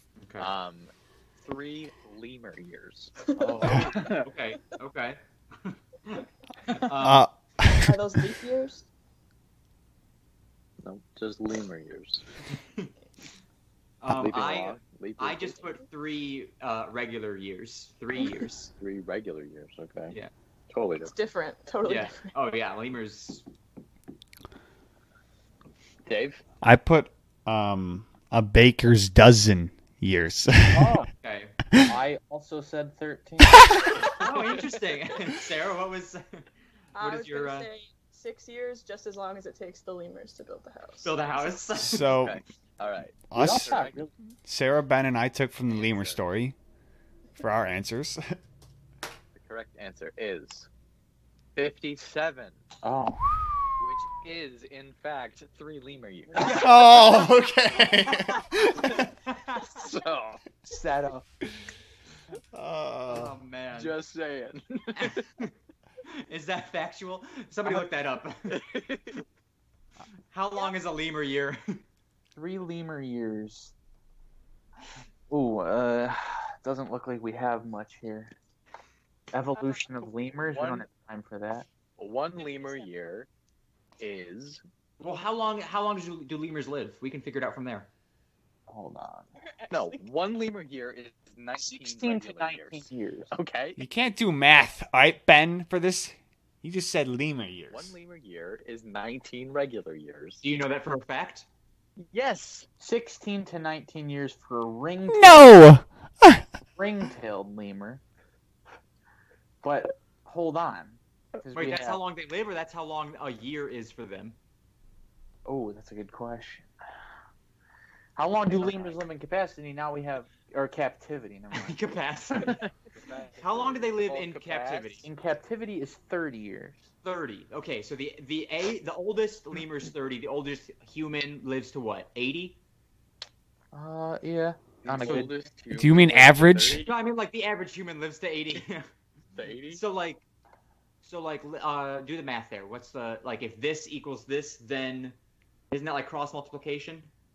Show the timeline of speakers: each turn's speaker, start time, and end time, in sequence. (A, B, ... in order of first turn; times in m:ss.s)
0:00.2-0:00.5 A
0:00.4-0:03.2 B
0:03.4-0:04.3 C
0:03.6-0:07.2 A
0:07.0-0:08.0 D
0:07.7-0:08.9 E
0:10.8-0:12.2 B
0:12.5-0:12.9 A
0:14.0-0:18.7 A
0:14.1-0:15.7 B
0:18.8-0:20.2 B
0:20.7-0:21.1 B
0:21.0-0:22.3 E
0:21.8-0:23.4 A
0:26.0-0:26.4 B
0:26.6-0:31.0 D
0:30.7-0:31.1 C
0:31.2-0:31.6 A
0:31.8-0:33.7 C
0:34.2-0:36.4 A
0:36.9-0:41.2 E
0:37.0-0:37.7 A
0:41.0-0:42.2 A
0:41.8-0:42.4 D
0:42.1-0:44.1 B
0:43.3-0:43.8 D
0:43.3-0:44.1 C
0:44.4-0:46.6 D
0:45.7-0:46.2 B
0:47.4-0:48.4 D
0:49.3-0:50.7 B
0:51.6-0:52.6 B
0:52.8-0:53.2 C
0:53.8-0:56.8 B
0:56.4-0:56.7 C
0:56.5-0:59.1 D
0:58.2-0:59.8 A
0:59.6-1:00.4 B
1:00.6-1:01.2 C
1:02.5-1:03.3 D
1:03.1-1:04.0 A
1:03.7-1:05.2 B
1:05.0-1:05.5 A
1:06.0-1:08.6 A
1:08.5-1:09.2 B
1:10.3-1:11.8 A
1:12.3-1:13.7 C
1:15.3-1:18.3 C
1:19.3-1:21.6 C
1:19.6-1:19.8 E
1:20.5-1:20.9 B
1:22.0-1:23.3 B
1:24.0-1:24.6 B
1:25.0-1:27.9 A
1:28.7-1:29.3 C
1:29.4-1:30.0 E
1:29.7-1:33.8 B
1:31.6-1:33.3 C
1:33.8-1:37.9 D
1:37.7-1:40.4 B
1:40.4-1:41.5 A
1:42.0-1:42.7 B
1:42.8-1:45.6 C
1:45.1-1:46.4 D
1:46.7-1:48.0 C
1:49.6-1:52.0 C
1:51.5-1:54.4 A
1:55.4-1:56.7 C
1:58.2-2:01.8 C
1:58.6-1:59.0 B
2:01.5-2:02.7 A
2:02.4-2:02.6 C
2:02.9-2:05.0 B
2:03.4-2:05.1 A
2:05.0-2:06.8 C
2:07.0-2:12.6 A
2:13.7-2:15.5 C
2:14.8-2:16.9 B
2:15.0-2:15.3 A
2:15.7-2:16.8 D
2:16.8-2:18.9 A
2:19.3-2:19.8 B
2:19.7-2:20.2 A
2:21.0-2:25.2 A
2:25.7-2:27.1 A